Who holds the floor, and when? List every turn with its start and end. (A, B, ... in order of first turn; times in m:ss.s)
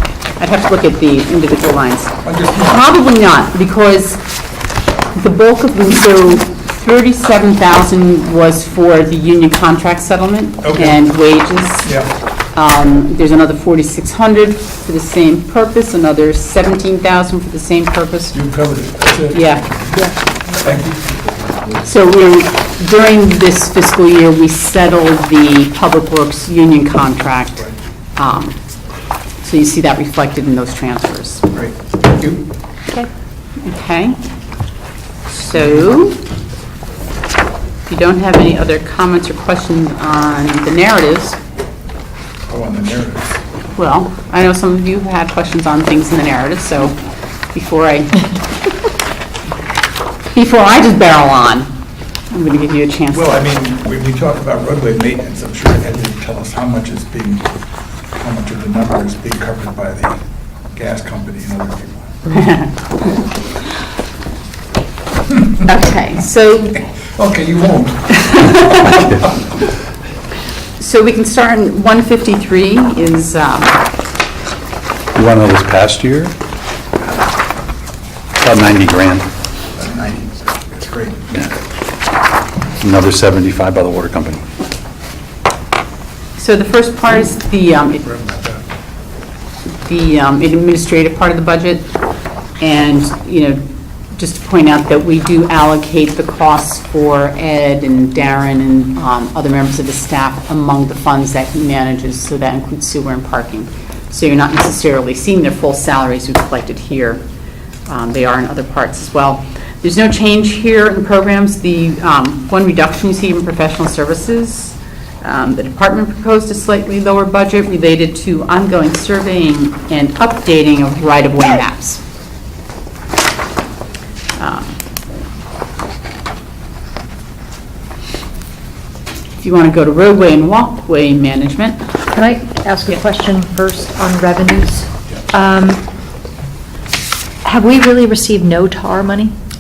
0:00.4-0:04.2 A
0:02.2-0:02.8 B
0:05.2-0:11.9 A
0:10.6-0:11.0 B
0:12.6-0:18.4 A
0:18.3-0:21.9 B
0:19.3-0:19.7 A
0:21.9-0:27.6 A
0:28.2-0:28.6 A
0:29.4-0:31.4 A
0:31.5-0:32.4 B
0:33.6-0:34.2 A
0:35.4-0:36.2 A
0:35.5-0:35.8 B
0:37.9-0:41.4 A
0:42.5-0:43.4 B
0:43.8-0:47.0 A
0:47.5-0:48.4 A
0:50.3-0:51.7 A
0:52.3-0:53.3 A
0:53.1-0:57.5 B
0:58.2-1:00.2 B
1:00.7-1:02.3 B
1:02.3-1:03.2 A
1:05.6-1:06.8 A
1:07.2-1:09.1 B
1:08.2-1:09.0 A
1:10.8-1:13.8 A
1:15.2-1:16.4 C
1:18.4-1:19.3 C
1:19.8-1:21.5 B
1:22.8-1:24.4 C
1:26.4-1:28.0 A
1:28.0-1:28.6 B
1:29.8-1:31.9 A
1:32.6-1:33.6 A
1:34.2-1:47.2 A
1:47.9-2:02.0 A
2:04.4-2:04.8 A
2:09.4-2:11.8 A
2:12.1-2:15.8 D
2:17.4-2:19.3 D